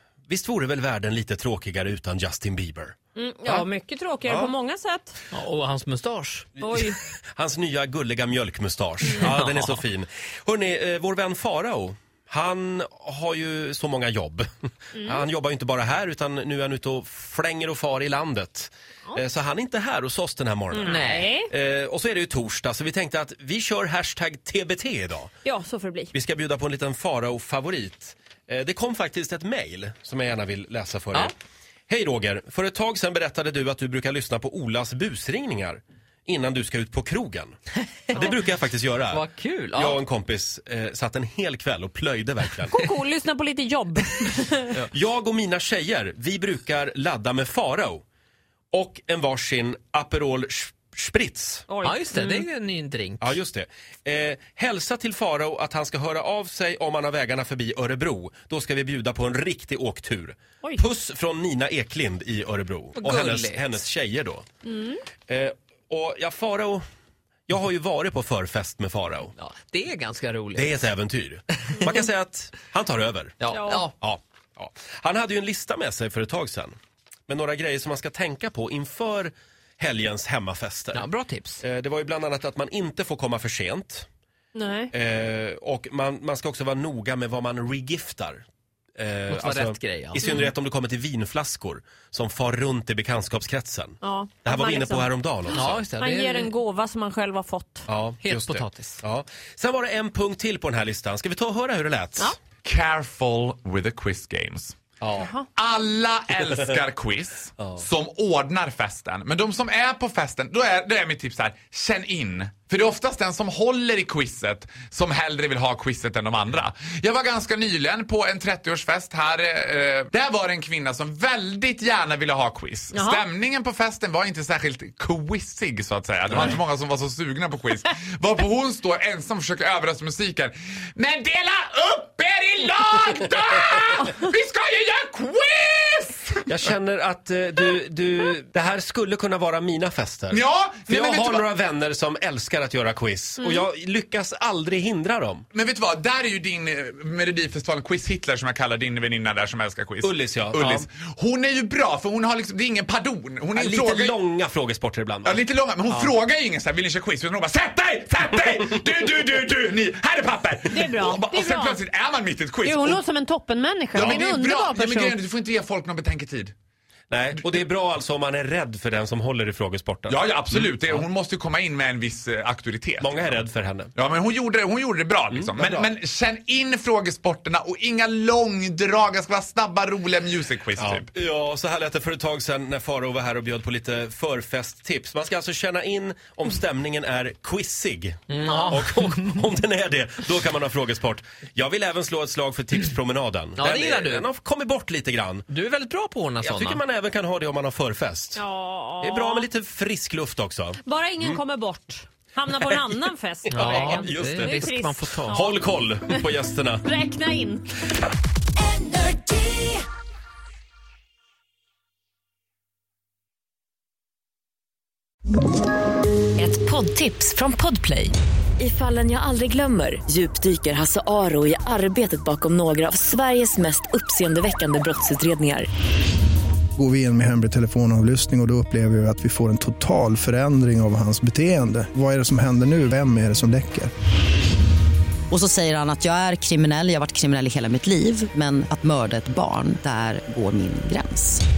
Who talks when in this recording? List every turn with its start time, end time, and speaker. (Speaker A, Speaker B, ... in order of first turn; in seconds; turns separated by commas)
Speaker A: 0.3-3.6, Speaker B: 3.1-5.2, Speaker C: 5.3-6.5, Speaker B: 6.6-7.0, Speaker A: 7.3-25.3, Speaker B: 20.7-21.5, Speaker C: 20.9-21.2, Speaker B: 25.4-26.1, Speaker A: 26.1-31.3, Speaker A: 31.9-37.5, Speaker A: 38.1-42.8, Speaker C: 39.1-40.0, Speaker B: 42.7-44.8, Speaker A: 44.9-48.0, Speaker A: 48.7-51.6, Speaker B: 51.7-52.5, Speaker C: 51.9-53.4, Speaker A: 53.2-64.5, Speaker C: 62.9-63.6, Speaker B: 64.7-65.0, Speaker A: 65.3-66.8, Speaker A: 67.5-69.3, Speaker C: 69.4-70.8, Speaker A: 70.5-73.3, Speaker C: 73.4-73.9, Speaker B: 73.5-73.9, Speaker A: 74.0-76.7, Speaker A: 77.3-81.1, Speaker C: 80.9-81.6, Speaker A: 81.6-84.1, Speaker B: 84.5-84.9, Speaker A: 84.9-88.4, Speaker A: 89.0-95.8, Speaker C: 89.3-90.2, Speaker B: 94.0-97.9, Speaker C: 95.5-96.5, Speaker A: 97.9-102.3, Speaker C: 98.2-99.0, Speaker D: 102.6-104.8, Speaker A: 105.0-105.3, Speaker D: 105.5-136.4, Speaker B: 122.9-123.2, Speaker A: 126.3-126.6, Speaker A: 136.5-145.4, Speaker D: 140.3-141.5, Speaker D: 145.5-154.2, Speaker A: 150.0-150.9, Speaker A: 153.5-156.1, Speaker D: 155.2-163.0, Speaker B: 160.7-161.8, Speaker B: 162.6-165.2, Speaker D: 163.9-166.5, Speaker A: 167.1-171.1, Speaker D: 170.1-173.4, Speaker A: 173.0-173.9, Speaker D: 173.9-181.1, Speaker A: 175.3-175.9, Speaker A: 180.8-195.4, Speaker C: 188.3-189.0, Speaker C: 193.6-194.2, Speaker C: 195.5-196.8, Speaker A: 196.4-198.4, Speaker B: 198.3-199.5, Speaker A: 199.0-201.4, Speaker B: 200.8-206.2, Speaker C: 203.5-205.3, Speaker A: 203.5-206.8, Speaker B: 206.8-207.7, Speaker E: 216.4-225.7, Speaker F: 226.8-233.9, Speaker G: 235.3-241.4